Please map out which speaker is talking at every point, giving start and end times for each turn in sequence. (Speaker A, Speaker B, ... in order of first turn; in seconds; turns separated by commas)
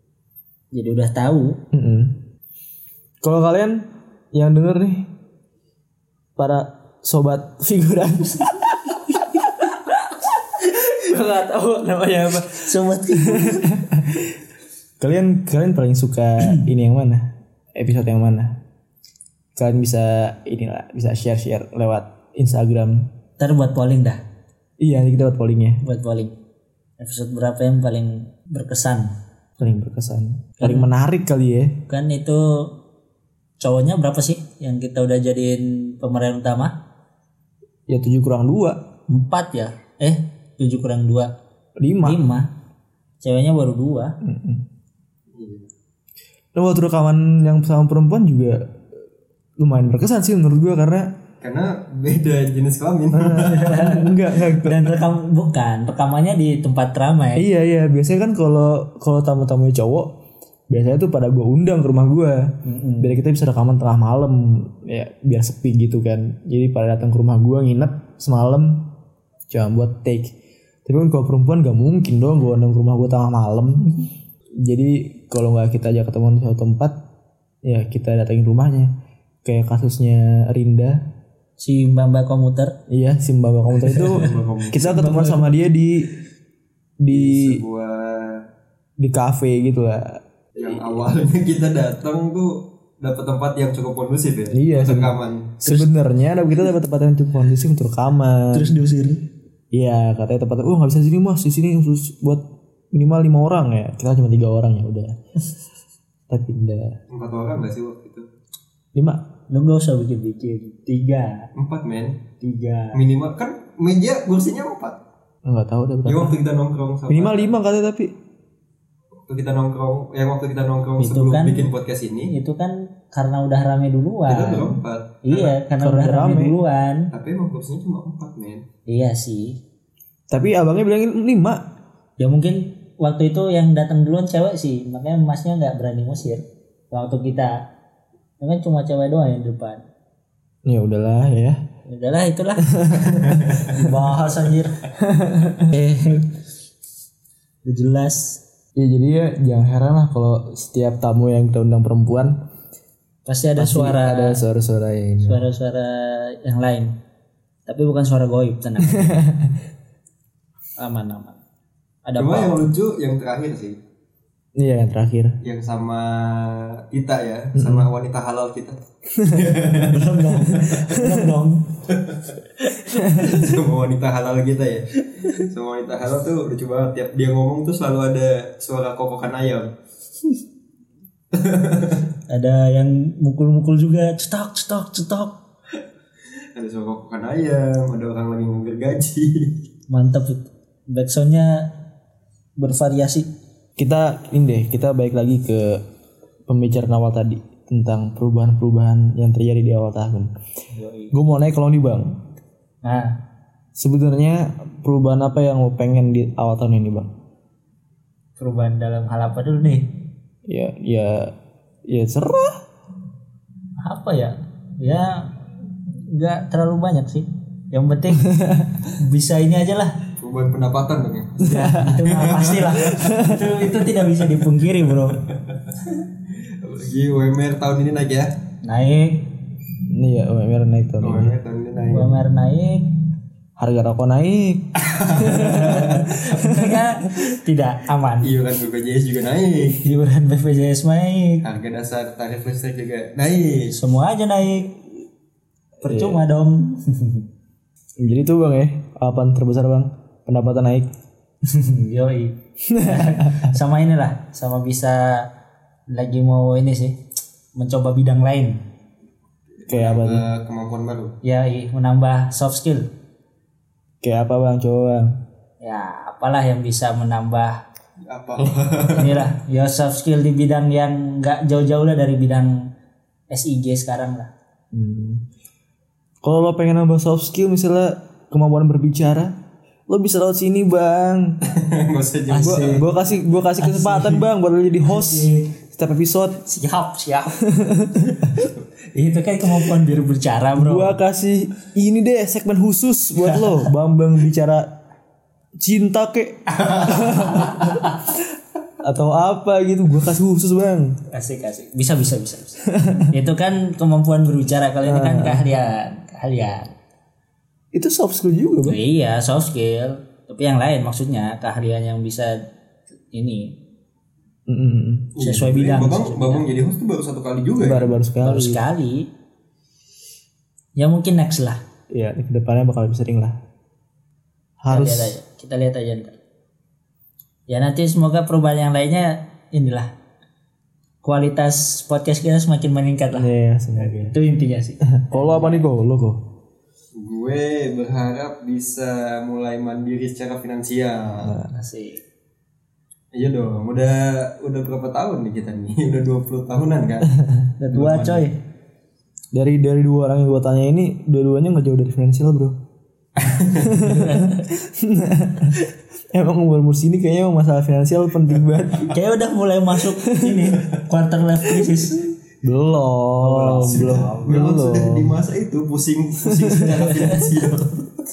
Speaker A: 0.7-1.6, Speaker B: 1.7-2.2, Speaker B: 3.2-5.1, Speaker B: 6.4-14.4, Speaker A: 12.6-13.7, Speaker B: 15.0-18.6, Speaker B: 19.6-23.1, Speaker A: 23.4-24.2, Speaker B: 24.8-25.8, Speaker A: 25.8-26.4, Speaker A: 27.0-29.1, Speaker B: 29.6-31.8, Speaker A: 30.6-30.9, Speaker A: 31.9-32.8, Speaker A: 33.6-36.8, Speaker B: 37.9-38.8, Speaker A: 39.1-41.3, Speaker B: 41.8-42.2, Speaker A: 42.0-42.5, Speaker A: 43.2-44.2, Speaker B: 44.2-44.6, Speaker C: 45.3-45.7, Speaker B: 46.5-48.6, Speaker B: 49.6-51.1, Speaker C: 51.4-53.8, Speaker B: 53.1-54.9, Speaker A: 53.4-57.5, Speaker B: 57.4-60.1, Speaker B: 60.7-68.9, Speaker A: 62.6-63.2, Speaker B: 69.5-70.3, Speaker B: 70.9-74.0, Speaker B: 74.6-77.0, Speaker B: 77.6-78.9, Speaker B: 79.4-81.0, Speaker A: 81.6-82.8, Speaker B: 82.9-86.1, Speaker C: 83.9-84.9, Speaker A: 83.9-85.6, Speaker B: 87.0-87.6, Speaker C: 87.1-88.5, Speaker B: 89.0-90.2, Speaker C: 90.6-95.5, Speaker B: 94.5-98.8, Speaker A: 95.6-95.9, Speaker A: 98.5-99.2, Speaker B: 99.7-105.2, Speaker B: 106.3-107.0, Speaker C: 107.1-108.3, Speaker B: 108.9-109.2, Speaker A: 109.5-111.5, Speaker C: 111.5-112.2, Speaker A: 112.4-113.0, Speaker C: 112.9-115.0, Speaker B: 115.4-116.4, Speaker C: 116.0-117.6, Speaker B: 117.1-118.1, Speaker C: 119.3-122.3, Speaker A: 121.0-121.7, Speaker A: 122.3-124.7, Speaker C: 124.3-125.6, Speaker A: 125.2-127.1, Speaker B: 125.8-126.6, Speaker C: 127.1-128.7, Speaker A: 128.9-129.6, Speaker B: 130.3-131.7, Speaker A: 132.2-137.7, Speaker A: 138.4-139.8, Speaker B: 140.6-141.6, Speaker A: 141.9-144.8, Speaker B: 142.7-143.9, Speaker C: 143.3-143.6, Speaker B: 145.0-145.7, Speaker A: 145.7-146.4, Speaker A: 147.6-148.4, Speaker B: 148.8-152.4, Speaker A: 153.2-154.4, Speaker B: 153.6-155.5, Speaker A: 155.2-157.0, Speaker A: 157.7-159.2, Speaker B: 158.8-159.6, Speaker A: 160.8-161.4, Speaker A: 162.1-162.7, Speaker C: 162.2-163.8, Speaker B: 164.6-165.4, Speaker C: 165.4-171.0, Speaker B: 167.6-167.9, Speaker B: 169.2-169.5, Speaker A: 169.9-171.7, Speaker C: 171.9-172.3, Speaker A: 172.6-173.5, Speaker B: 172.9-173.5, Speaker C: 173.2-179.7, Speaker A: 175.2-175.4, Speaker C: 181.3-182.1, Speaker A: 182.3-185.4, Speaker C: 186.6-189.6, Speaker A: 189.9-191.7, Speaker A: 192.6-193.3, Speaker B: 193.8-195.8, Speaker B: 196.5-200.3, Speaker A: 200.7-201.2, Speaker B: 201.1-202.2, Speaker A: 202.8-203.2, Speaker B: 203.7-207.1, Speaker A: 208.4-209.9, Speaker B: 210.4-211.3, Speaker B: 211.9-212.6, Speaker A: 213.8-215.4, Speaker A: 215.9-218.3, Speaker B: 218.3-218.9, Speaker A: 218.9-220.0, Speaker C: 220.2-222.9, Speaker B: 221.4-222.1, Speaker A: 221.7-225.2, Speaker B: 222.8-223.5, Speaker C: 225.3-225.7, Speaker C: 226.6-228.3, Speaker A: 228.6-229.3, Speaker B: 229.9-231.3, Speaker C: 231.0-232.2, Speaker A: 231.9-232.9, Speaker B: 233.6-236.9, Speaker C: 234.8-236.0, Speaker A: 235.3-238.4, Speaker C: 238.2-239.8, Speaker A: 239.8-241.4, Speaker C: 241.4-243.7, Speaker A: 243.7-244.8, Speaker B: 245.8-246.2, Speaker A: 245.8-247.2, Speaker B: 248.0-250.9, Speaker A: 251.4-255.3, Speaker B: 252.7-253.6, Speaker A: 255.9-257.0, Speaker A: 257.6-258.6, Speaker C: 259.6-261.1, Speaker B: 259.7-260.2, Speaker A: 261.2-262.9, Speaker B: 264.0-265.2, Speaker A: 265.6-267.6, Speaker C: 268.0-269.3, Speaker A: 268.9-272.7, Speaker A: 273.3-274.3, Speaker B: 274.7-275.2, Speaker B: 276.2-279.4, Speaker B: 279.9-281.4, Speaker C: 281.4-282.9, Speaker A: 282.3-282.9, Speaker B: 282.4-286.4, Speaker A: 283.6-284.3, Speaker A: 284.9-285.5, Speaker A: 286.4-291.0, Speaker B: 287.5-288.3, Speaker B: 290.6-294.7, Speaker A: 293.2-293.7, Speaker B: 295.6-298.0, Speaker A: 296.6-298.0, Speaker B: 298.8-301.0, Speaker A: 301.1-306.7, Speaker B: 302.7-303.1, Speaker B: 304.8-305.4, Speaker B: 307.7-308.8, Speaker A: 308.6-312.4, Speaker A: 313.1-313.6, Speaker B: 314.5-315.1, Speaker C: 315.1-317.9, Speaker A: 315.2-316.4, Speaker B: 317.6-318.6, Speaker A: 318.2-319.1, Speaker A: 320.8-321.6, Speaker B: 321.9-323.4, Speaker B: 324.6-325.2, Speaker A: 324.7-326.2, Speaker A: 327.5-329.9, Speaker A: 331.0-335.7, Speaker B: 333.1-334.1, Speaker B: 334.9-336.2, Speaker C: 336.9-341.4, Speaker B: 341.2-341.5, Speaker A: 341.5-342.0, Speaker C: 343.1-347.1, Speaker A: 347.6-348.4, Speaker C: 347.7-348.3, Speaker B: 349.3-352.6, Speaker C: 353.1-353.8, Speaker B: 353.6-358.9, Speaker A: 353.8-354.4, Speaker A: 358.9-362.1, Speaker B: 360.1-360.5, Speaker B: 362.4-365.2, Speaker A: 363.2-364.4, Speaker C: 363.6-367.9, Speaker B: 366.2-366.8